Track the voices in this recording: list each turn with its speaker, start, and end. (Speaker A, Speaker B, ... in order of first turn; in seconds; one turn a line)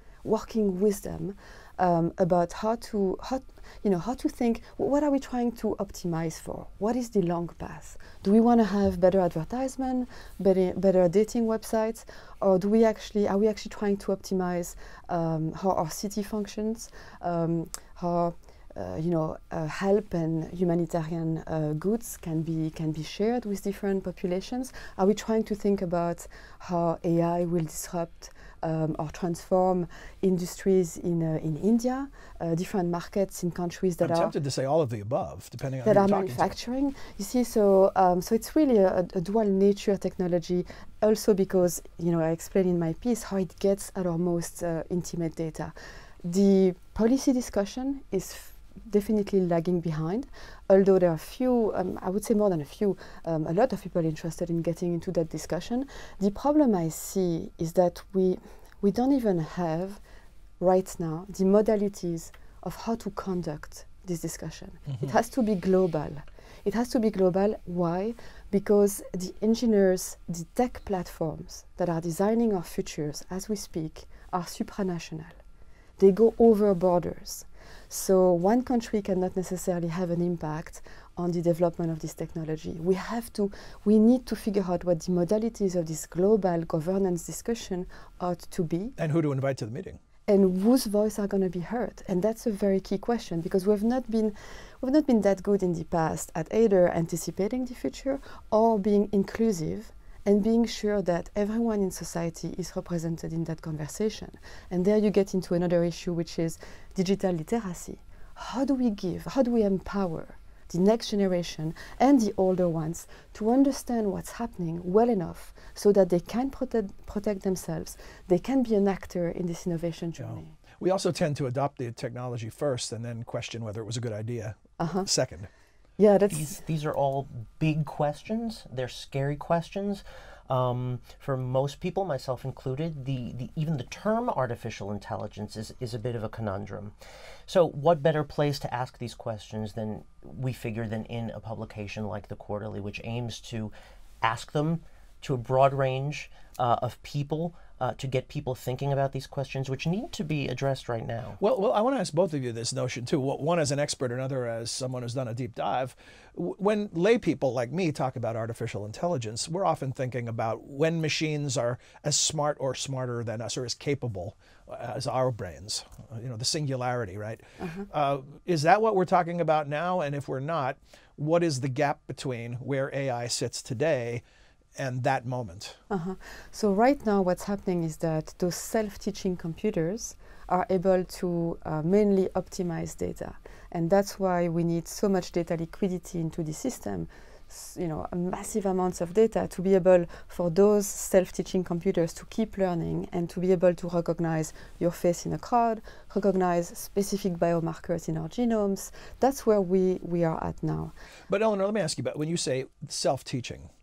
Speaker A: 0.2-34.3
Speaker B: 34.0-36.5
Speaker A: 35.8-60.0
Speaker A: 60.6-75.4
Speaker A: 76.0-88.9
Speaker B: 89.0-90.0
Speaker A: 90.3-120.6
Speaker B: 120.2-125.5
Speaker A: 124.8-125.1
Speaker A: 126.0-126.6
Speaker C: 126.3-136.9
Speaker C: 137.5-151.4
Speaker B: 151.4-174.2
Speaker A: 167.6-167.9
Speaker B: 174.8-175.8
Speaker A: 175.9-200.9
Speaker B: 201.3-203.7